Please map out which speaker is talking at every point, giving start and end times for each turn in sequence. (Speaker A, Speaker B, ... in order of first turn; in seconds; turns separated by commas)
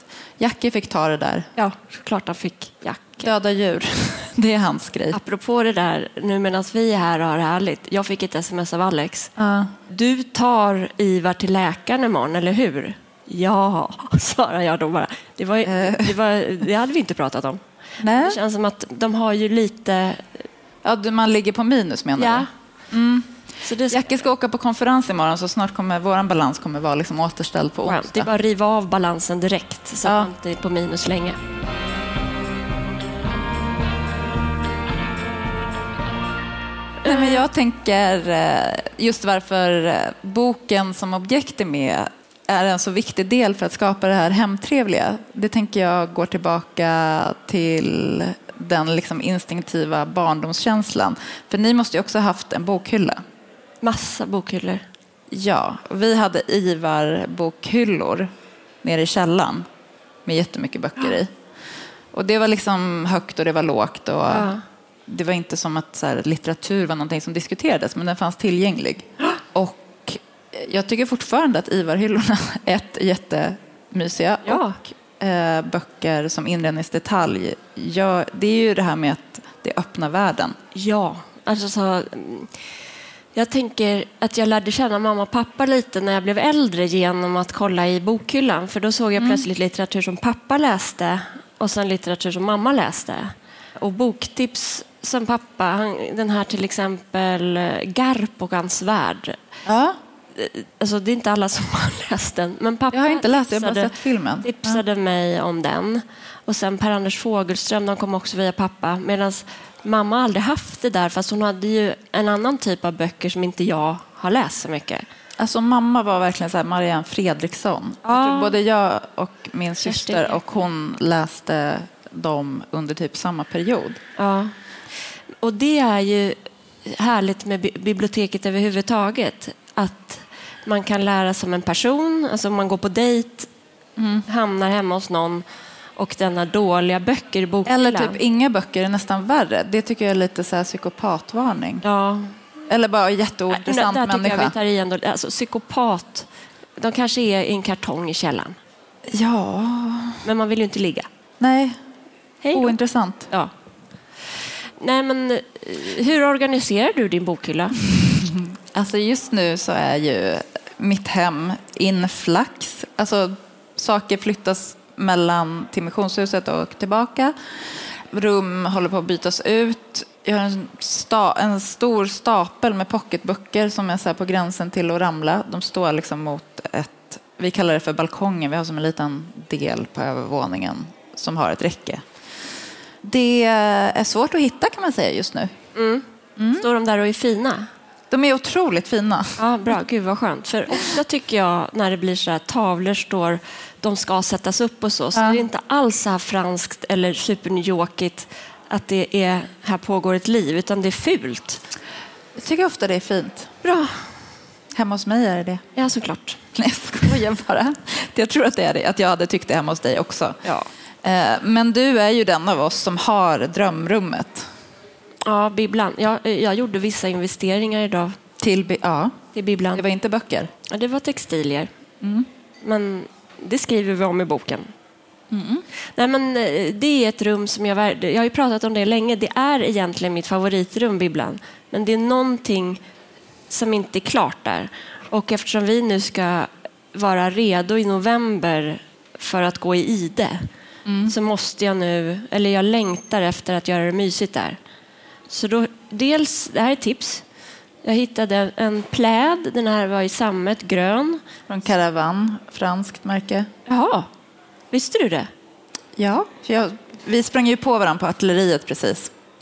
Speaker A: 0.4-1.5, Speaker B: 1.6-3.3, Speaker A: 3.2-5.2, Speaker B: 5.1-9.3, Speaker A: 9.4-9.7, Speaker B: 9.9-20.4, Speaker A: 15.7-16.2, Speaker A: 18.0-18.4, Speaker A: 20.8-23.4, Speaker B: 22.2-22.5, Speaker B: 23.6-24.2, Speaker A: 23.9-28.3, Speaker B: 27.9-31.4, Speaker A: 30.1-30.3, Speaker B: 37.0-37.4, Speaker A: 37.0-53.2, Speaker B: 53.8-54.9, Speaker A: 55.3-58.3, Speaker A: 58.8-59.6, Speaker A: 60.3-61.3, Speaker A: 62.1-64.5, Speaker B: 64.3-64.6, Speaker A: 65.1-80.6, Speaker B: 74.5-74.8, Speaker B: 80.7-82.5, Speaker B: 83.3-99.4, Speaker A: 89.2-89.5, Speaker A: 99.7-100.0, Speaker B: 100.3-115.0, Speaker A: 102.9-104.8, Speaker A: 115.4-124.0, Speaker B: 118.0-118.5, Speaker B: 119.8-120.4, Speaker B: 124.2-124.5, Speaker B: 125.4-133.5, Speaker A: 134.0-134.2, Speaker B: 134.3-135.4, Speaker B: 136.0-138.2, Speaker A: 137.7-141.8, Speaker B: 141.8-142.3, Speaker A: 142.7-144.6, Speaker B: 143.5-148.6, Speaker A: 149.1-150.2, Speaker B: 150.2-151.1, Speaker A: 151.4-151.8, Speaker B: 152.4-152.8, Speaker A: 152.5-153.3, Speaker B: 154.8-157.8, Speaker A: 158.0-167.3, Speaker A: 168.1-182.0, Speaker A: 183.0-185.5, Speaker B: 185.8-187.7, Speaker A: 186.4-186.7, Speaker A: 188.1-189.4, Speaker B: 189.4-201.6, Speaker A: 195.2-195.4, Speaker A: 202.4-203.5, Speaker B: 203.6-204.1, Speaker A: 204.8-205.6, Speaker B: 205.8-206.4, Speaker A: 206.6-210.4, Speaker A: 211.0-214.5, Speaker B: 215.2-218.2, Speaker A: 218.4-219.2, Speaker B: 219.3-219.8, Speaker A: 219.8-220.5, Speaker B: 220.7-221.7, Speaker A: 222.0-222.3, Speaker B: 222.6-224.7, Speaker A: 225.3-225.6, Speaker B: 226.0-232.8, Speaker B: 233.5-240.5, Speaker A: 240.9-241.1, Speaker B: 241.1-244.6, Speaker B: 245.3-247.2, Speaker B: 247.8-251.2, Speaker A: 251.5-253.5, Speaker B: 253.7-254.1, Speaker B: 254.7-255.3, Speaker A: 256.0-259.1